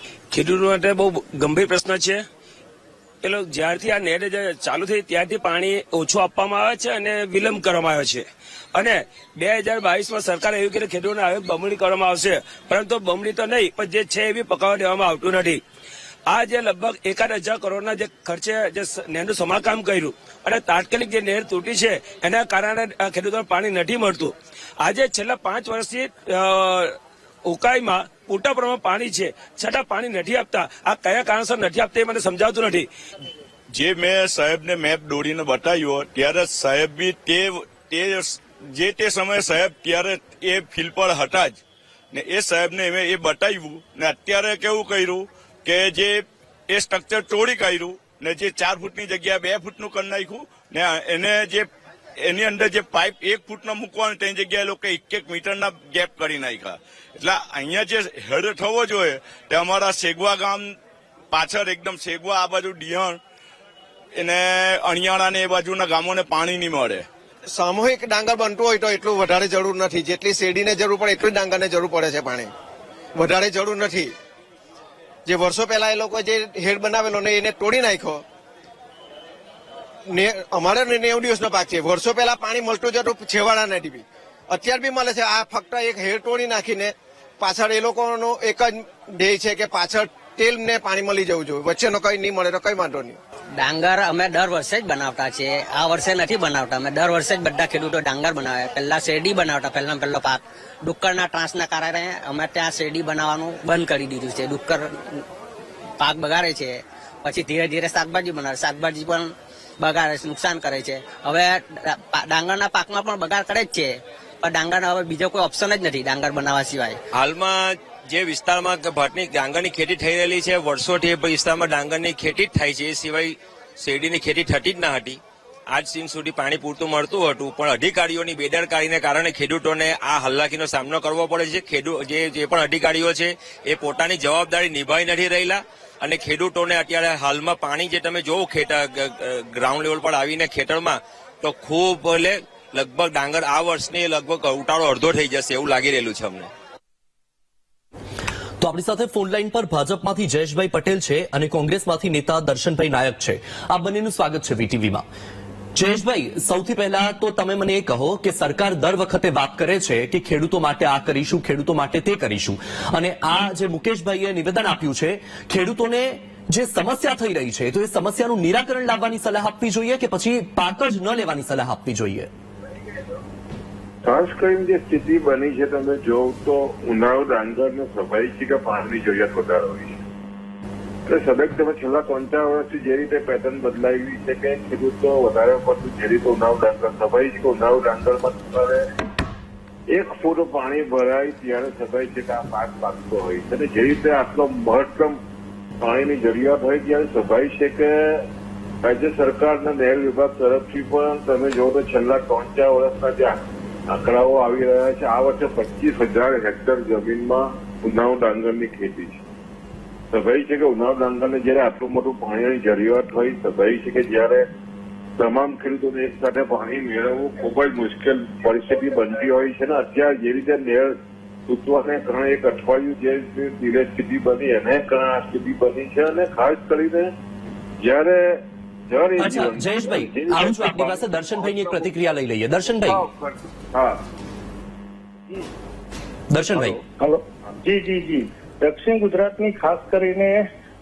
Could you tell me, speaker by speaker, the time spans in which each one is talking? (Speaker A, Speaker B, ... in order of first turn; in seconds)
Speaker A: 0.3-2.2, 3.2-15.6, 16.3-32.9
Speaker B: 33.7-41.6, 42.1-51.7, 52.2-60.7, 61.3-63.2, 64.2-67.1
Speaker C: 67.6-72.5, 73.2-74.1, 75.3-78.2, 80.1-93.1
Speaker D: 93.5-105.2, 106.0-117.0
Speaker E: 117.2-146.5
Speaker F: 148.6-155.0, 155.7-172.3, 229.2-233.0, 236.3-236.8
Speaker G: 174.0-180.0, 181.1-188.8, 189.9-195.2, 195.8-198.2, 198.8-209.2, 210.1-214.5, 215.2-220.9, 221.5-227.1, 227.8-232.0, 232.8-234.0
Speaker H: 237.0-240.4